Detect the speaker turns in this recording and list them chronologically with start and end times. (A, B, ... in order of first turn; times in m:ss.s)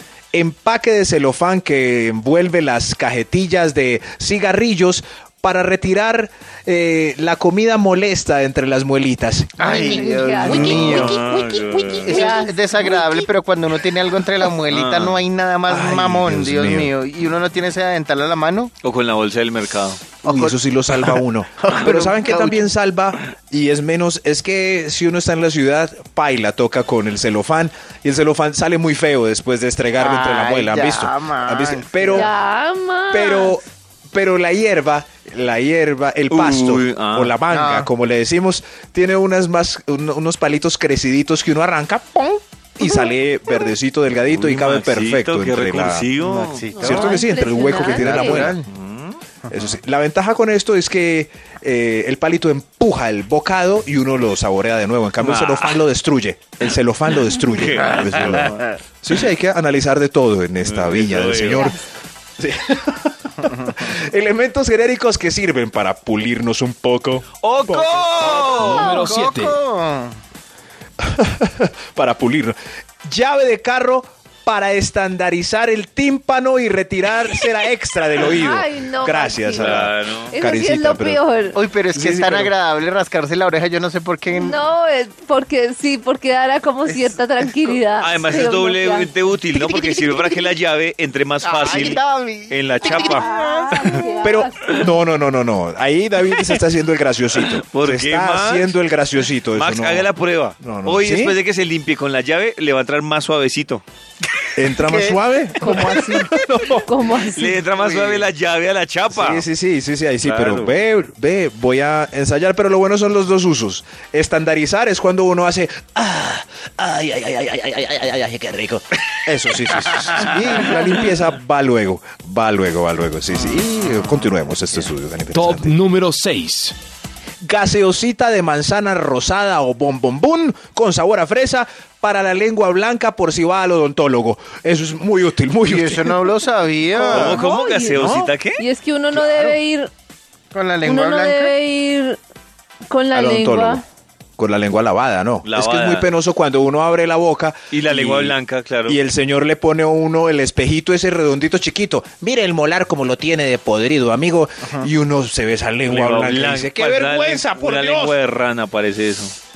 0:00.3-0:09.8 A
0:09.6-0:18.7 B
0:09.6-0:13.3 C
0:10.4-0:12.4 D
0:14.7-0:15.2 D
0:15.7-0:16.9 A
0:18.8-0:20.0 D
0:20.2-0:22.7 B
0:20.2-0:32.3 A
0:30.0-0:32.3 B
0:32.1-0:33.6 C
0:33.1-0:42.2 A
0:36.3-0:37.4 D
0:37.5-0:37.9 B
0:42.8-0:46.1 A
0:44.3-0:46.7 D
0:46.2-0:48.7 B
0:46.7-0:48.5 C
0:46.8-0:48.5 A
0:48.6-0:49.2 D
0:49.5-1:01.8 A
0:55.2-0:55.8 D
0:57.5-0:58.6 D
1:00.6-1:01.7 D
1:01.4-1:01.8 C
1:02.4-1:08.3 A
1:07.4-1:09.1 D
1:08.2-1:10.2 B
1:08.4-1:09.6 E
1:11.0-1:21.2 A
1:18.2-1:21.6 C
1:19.6-1:20.4 D
1:21.5-1:24.6 B
1:21.9-1:22.5 A
1:24.3-1:30.5 C
1:26.9-1:27.8 B
1:28.0-1:33.3 D
1:31.4-1:34.1 B
1:32.8-1:34.7 C
1:34.2-1:41.4 A
1:37.7-1:38.8 D
1:39.5-1:43.8 D
1:44.6-1:46.9 A
1:44.8-1:46.0 B
1:45.6-1:46.3 C
1:46.9-1:47.6 C
1:47.3-1:49.4 D
1:47.8-1:48.3 B
1:49.1-2:05.8 A
1:50.2-1:50.8 D
2:05.3-2:06.8 E
2:07.4-2:16.2 A
2:15.6-2:17.5 B
2:17.0-2:18.6 D
2:17.1-2:17.4 A
2:17.2-2:19.9 C
2:18.0-2:18.3 A
2:19.2-2:19.5 B
2:20.5-2:21.6 B
2:20.8-2:22.2 C
2:22.9-2:23.8 C
2:23.1-2:23.8 A
2:24.4-2:28.4 A
2:25.4-2:26.1 D
2:27.7-2:29.0 D
2:28.9-2:38.2 A
2:35.8-2:39.4 D